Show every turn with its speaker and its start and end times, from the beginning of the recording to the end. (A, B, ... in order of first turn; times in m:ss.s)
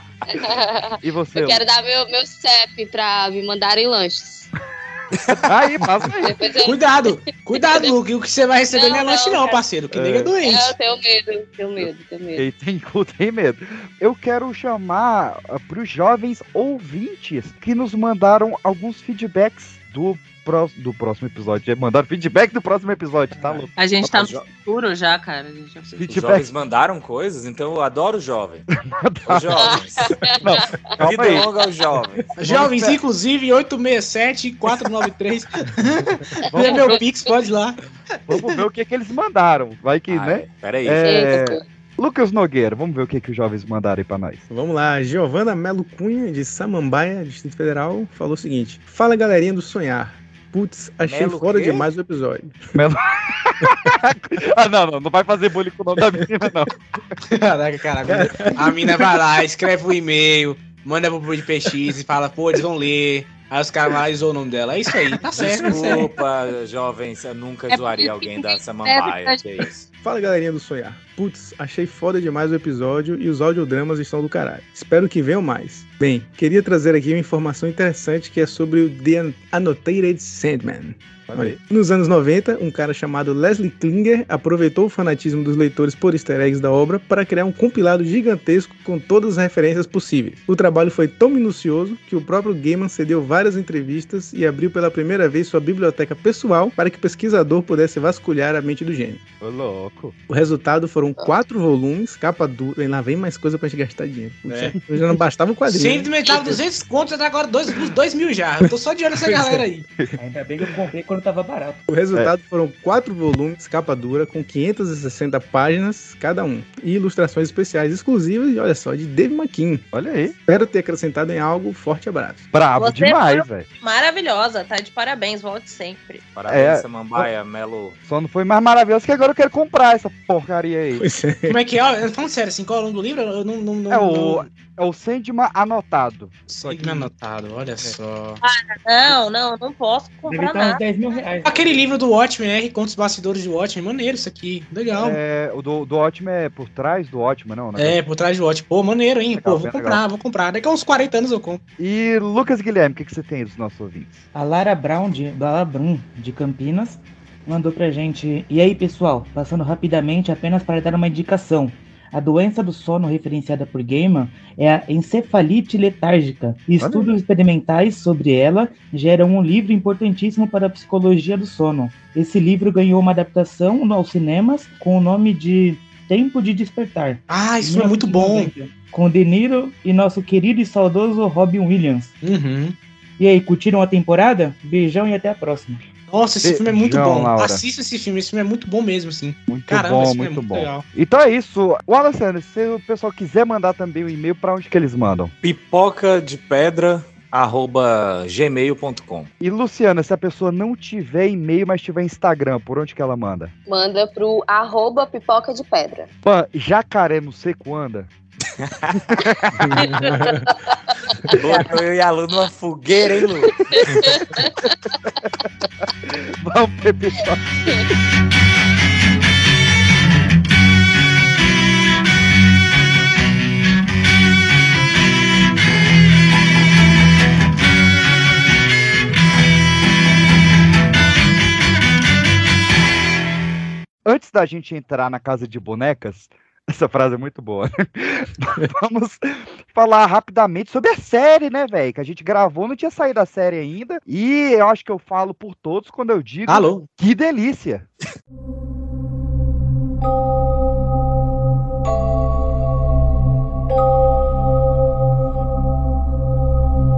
0:00.3-0:04.5 A
0:01.0-0:01.6 B
0:05.2-0:05.4 C
0:05.4-0:06.5 B
0:06.2-0:07.9 A
0:06.6-0:10.7 D
0:08.7-0:09.6 A
0:09.9-0:10.3 B
0:10.4-0:12.4 A
0:11.8-0:24.4 B
0:23.8-0:25.9 E
0:26.0-0:28.7 C
0:26.0-0:26.5 B
0:28.9-0:29.8 B
0:29.3-0:30.4 C
0:30.4-0:31.5 B
0:31.0-0:32.3 C
0:32.4-0:37.8 D
0:32.4-0:33.0 B
0:36.5-0:37.0 B
0:38.3-0:44.4 B
0:40.1-0:41.3 C
0:41.0-0:41.6 A
0:44.5-0:52.5 F
0:51.0-0:51.9 C
0:52.7-0:56.7 B
0:57.3-1:06.1 D
0:58.1-0:59.1 F
1:05.4-1:09.9 C
1:10.0-1:39.2 F
1:21.3-1:21.6 B
1:39.4-1:40.1 B
1:40.3-1:46.4 F
1:44.5-1:44.7 D
1:45.6-1:49.8 D
1:50.2-1:51.9 G
1:51.9-1:59.8 F
1:59.9-2:00.4 B
2:00.5-2:02.4 F
2:02.5-2:03.6 B
2:02.8-2:06.2 E
2:06.3-2:08.0 C
2:06.5-2:07.3 B
2:08.0-2:11.0 B
2:11.0-2:11.6 F
2:11.5-2:14.5 D
2:13.9-2:17.1 B
2:16.5-2:18.4 D
2:18.4-2:20.8 E
2:20.3-2:21.9 G
2:21.4-2:25.2 D
2:24.9-2:28.0 B
2:27.8-2:31.6 D
2:29.3-2:30.0 B
2:31.8-2:34.2 B
2:34.3-3:02.1 G
2:46.8-2:47.2 B
2:57.3-2:58.5 D
3:02.2-3:02.8 D
3:03.2-3:05.8 G
3:06.1-3:10.8 D
3:06.4-3:07.6 B
3:09.5-3:15.3 B
3:15.4-3:19.3 C
3:19.4-3:23.5 B
3:23.7-3:26.1 A
3:26.2-3:28.1 B
3:29.1-3:29.9 B
3:29.7-3:30.4 F
3:31.3-3:33.5 C
3:33.7-3:34.5 A
3:36.0-3:37.4 B
3:54.0-4:07.9 B
4:06.5-4:06.9 D